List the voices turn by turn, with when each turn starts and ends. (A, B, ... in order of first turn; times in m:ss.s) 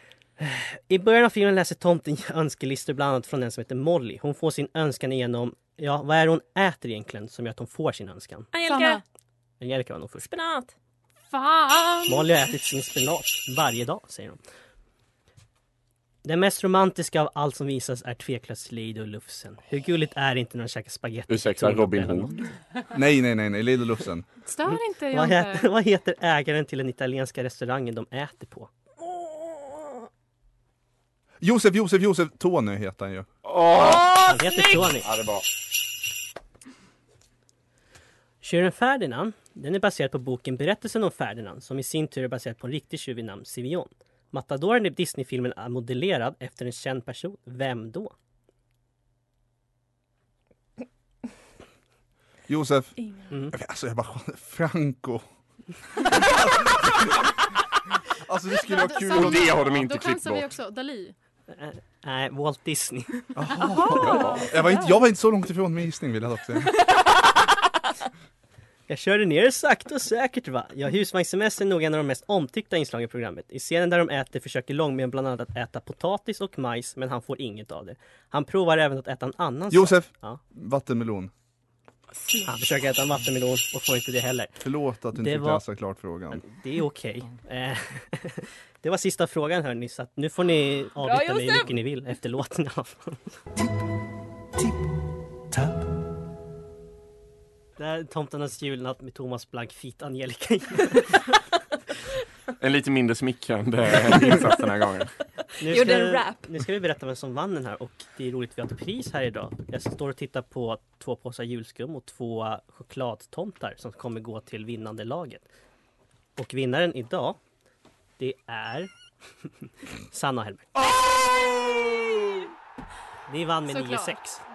0:00.4-0:08.5 A
0:08.5-0:09.0 B
0:08.6-0:09.0 C
0:09.6-0:10.3 A
0:10.2-0:10.7 B
0:11.3-0:12.3 C
0:12.1-0:14.4 A
0:16.2-0:22.5 A
0:21.3-0:22.3 D
0:22.9-0:24.2 E
0:24.4-0:25.7 C
0:25.1-0:28.7 A
0:31.4-0:33.3 E
0:33.4-0:35.4 D
0:34.2-0:35.1 A
0:38.4-0:48.1 A
0:52.5-0:53.0 E
0:53.5-0:55.2 E
0:56.0-0:57.3 E
0:58.2-0:59.7 E
0:58.6-1:01.1 C
0:59.1-1:00.5 D
1:01.5-1:03.2 A
1:03.3-1:06.8 E
1:03.7-1:04.9 C
1:03.9-1:04.5 D
1:08.9-1:20.4 A
1:19.7-1:21.3 E
1:22.1-1:22.5 B
1:22.5-1:24.6 A
1:24.6-1:26.4 E
1:25.1-1:25.6 A
1:26.3-1:33.2 A
1:31.0-1:31.7 B
1:37.8-1:41.3 A
1:42.6-1:45.1 D
1:45.6-1:55.4 A
1:45.6-1:46.5 B
1:56.4-1:57.4 A
1:58.2-1:58.9 A
2:00.1-2:00.7 A
2:01.7-2:02.2 B
2:03.3-2:04.4 A
2:03.6-2:04.2 C